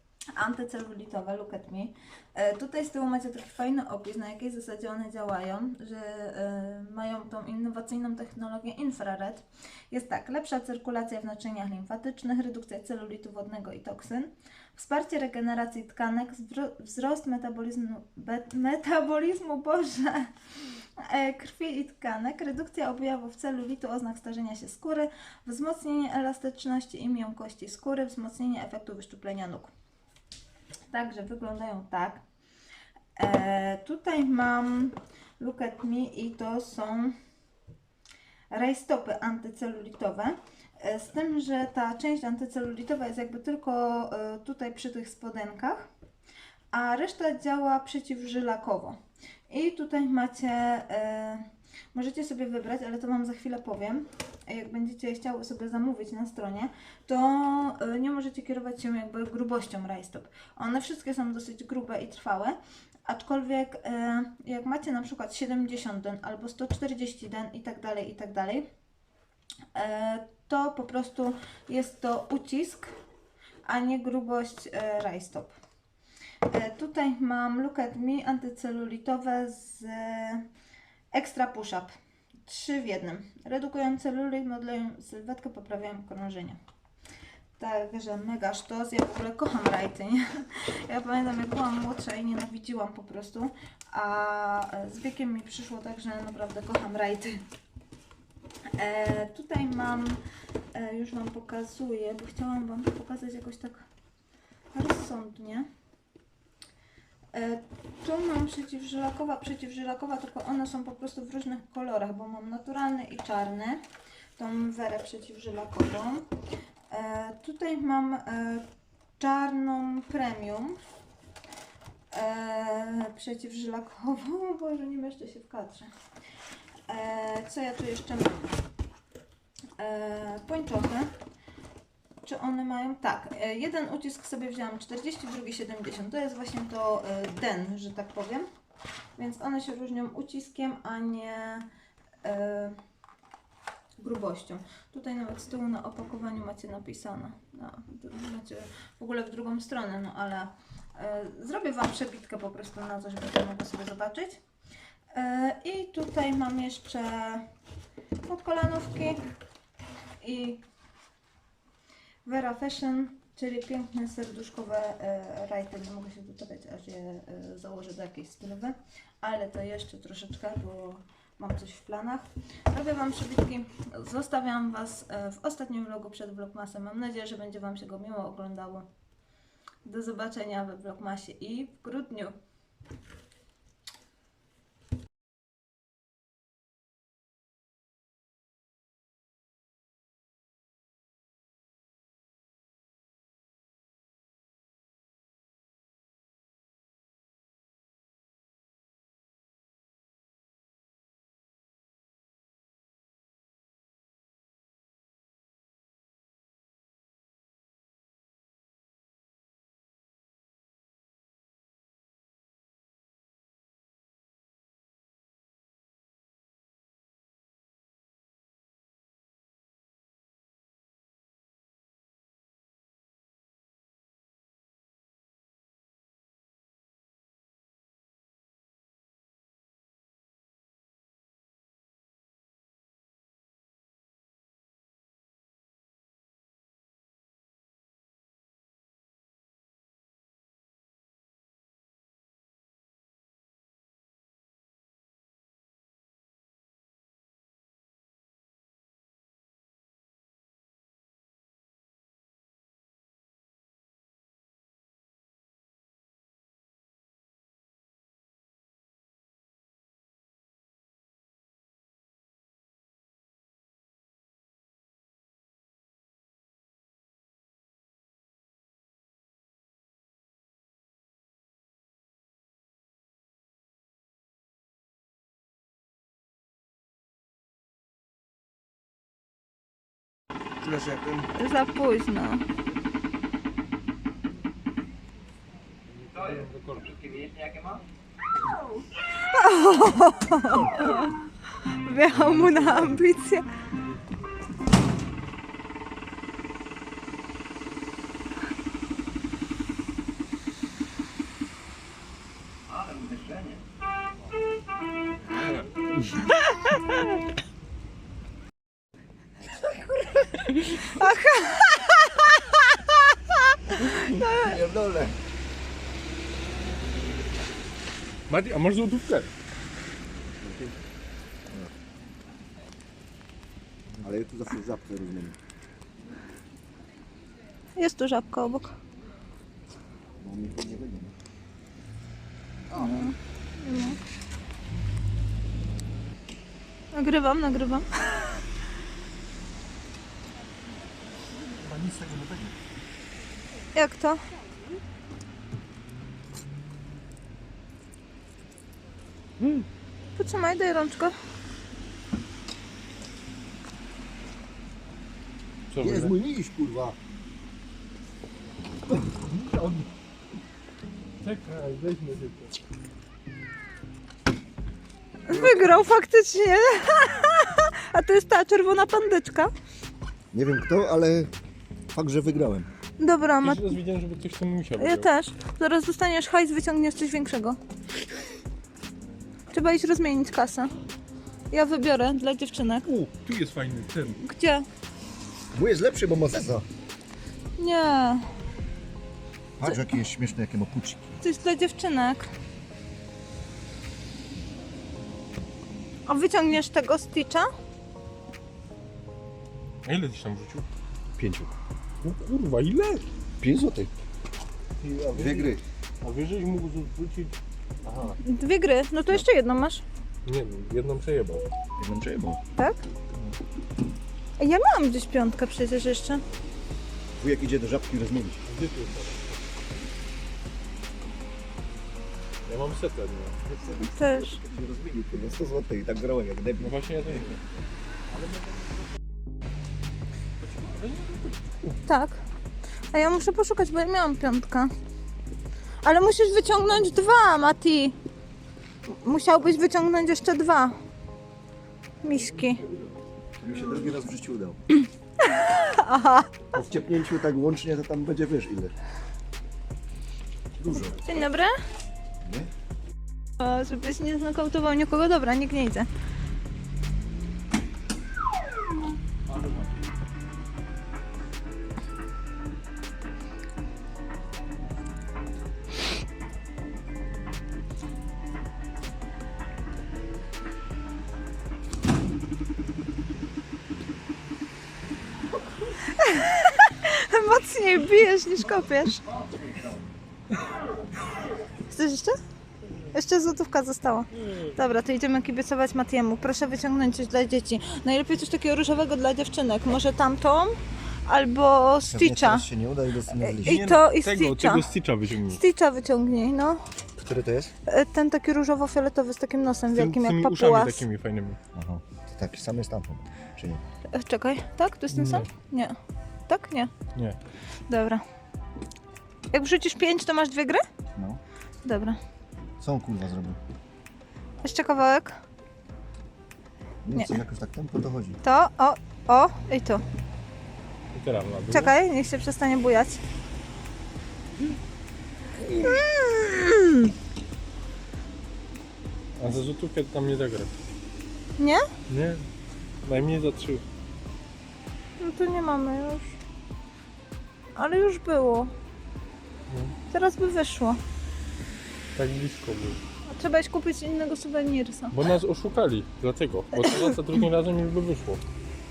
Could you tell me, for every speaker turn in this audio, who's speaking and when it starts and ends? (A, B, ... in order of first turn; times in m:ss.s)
0:00.4-0:20.3 A
0:21.0-0:29.7 A
0:30.9-0:32.2 A
0:33.2-0:37.1 A
0:38.5-0:45.9 A
0:46.7-0:49.0 A
0:49.5-1:08.7 A
1:09.7-1:12.9 A
1:13.6-1:15.5 A
1:16.5-1:20.5 A
1:21.1-1:21.9 A
1:22.4-1:26.6 A
1:27.6-1:37.4 A
1:38.8-1:40.2 A
1:40.7-1:43.8 A
1:44.7-1:45.7 A
1:47.3-1:53.8 A
1:54.4-1:56.3 A
1:56.9-1:58.6 A
1:59.2-2:00.8 A
2:02.1-2:05.9 A
2:06.9-2:08.5 A
2:09.8-2:11.1 A
2:12.2-2:18.4 A
2:19.2-2:21.7 A
2:22.2-2:22.8 A
2:24.0-2:34.4 A
2:35.1-2:37.4 A
2:38.2-2:39.2 A
2:40.2-2:40.6 A
2:42.2-2:58.9 A
2:59.8-3:02.3 A
4:40.6-4:41.1 B
4:41.3-4:42.4 A
4:45.9-4:47.4 C
4:49.2-4:53.5 A
4:52.5-4:52.9 C
5:06.3-5:07.0 A
5:10.4-5:14.5 A
5:14.2-5:15.2 B
5:18.3-5:19.3 C
5:20.4-5:20.7 B
5:24.0-5:25.4 B
5:27.8-5:28.8 A
5:30.2-5:31.1 B
5:32.7-5:34.0 A
5:36.9-5:38.4 A
5:41.5-5:42.5 B
5:43.7-5:44.2 A
5:49.4-5:49.6 B
5:50.2-5:51.2 A
5:55.7-5:56.1 C
5:55.8-5:57.0 B
5:59.2-5:59.9 C
6:01.2-6:02.5 C
6:05.3-6:09.5 A
6:05.3-6:05.8 B
6:10.3-6:11.3 B
6:11.9-6:12.7 B
6:13.0-6:13.6 A
6:13.4-6:15.1 C
6:14.8-6:17.6 A
6:19.5-6:20.7 A
6:21.5-6:22.8 A
6:22.8-6:24.2 C
6:24.2-6:24.6 A
6:25.5-6:26.6 B
6:27.6-6:28.2 A
6:29.6-6:31.2 B
6:31.2-6:32.3 A
6:36.1-6:37.5 A
6:39.8-6:40.6 C
6:41.2-6:43.0 C
6:43.4-6:43.9 B
6:44.8-6:47.3 C
6:45.1-6:45.6 B
6:48.2-6:49.8 A
6:50.2-6:51.4 C
6:51.8-6:52.4 B
6:54.4-6:56.2 A
6:57.2-6:58.4 B
6:58.4-6:59.4 C
7:02.4-7:03.4 C
7:03.4-7:06.8 B
7:03.8-7:04.4 A
7:06.6-7:07.4 C
7:08.2-7:08.6 C
7:10.5-7:11.4 C
7:11.8-7:12.2 A
7:12.9-7:14.7 A
7:15.8-7:18.0 A
7:18.9-7:20.8 A
7:22.0-7:22.6 A
7:23.4-7:24.6 B
7:25.2-7:26.3 A
7:26.5-7:28.7 B
7:30.6-7:31.2 B
7:30.8-7:31.5 A
7:32.2-7:32.5 B
7:33.4-7:35.9 A
7:55.8-7:59.0 A
8:01.7-8:02.1 A
8:02.9-8:10.5 A
8:11.0-8:12.4 A
8:11.9-8:13.6 B
8:13.1-8:14.7 A
8:13.4-8:15.4 C
8:15.3-8:16.6 A
8:17.0-8:17.5 B
8:17.7-8:20.9 A
8:19.7-8:21.4 C
8:21.5-8:23.6 B
8:23.9-8:25.7 A
8:24.9-8:25.3 C
8:26.3-8:26.7 A
8:27.7-8:28.0 A
8:29.3-8:30.6 A
8:31.0-8:31.2 B
8:31.6-8:32.0 A
8:32.6-8:33.4 B
8:34.4-8:35.1 A
8:36.8-8:38.2 B
8:38.2-8:39.8 A
8:40.9-8:41.7 C
8:41.5-8:43.0 A
8:45.4-8:45.8 B
8:45.6-8:46.9 A
8:49.2-8:50.5 C
8:51.4-8:51.6 A
8:51.9-8:52.2 C
8:52.8-8:53.6 C
8:55.0-8:56.2 A
8:57.6-8:58.5 A
8:59.5-8:59.7 C
8:59.9-9:00.8 A
9:02.0-9:02.8 C
9:03.0-9:05.0 A
9:04.9-9:08.2 C
9:06.6-9:07.0 A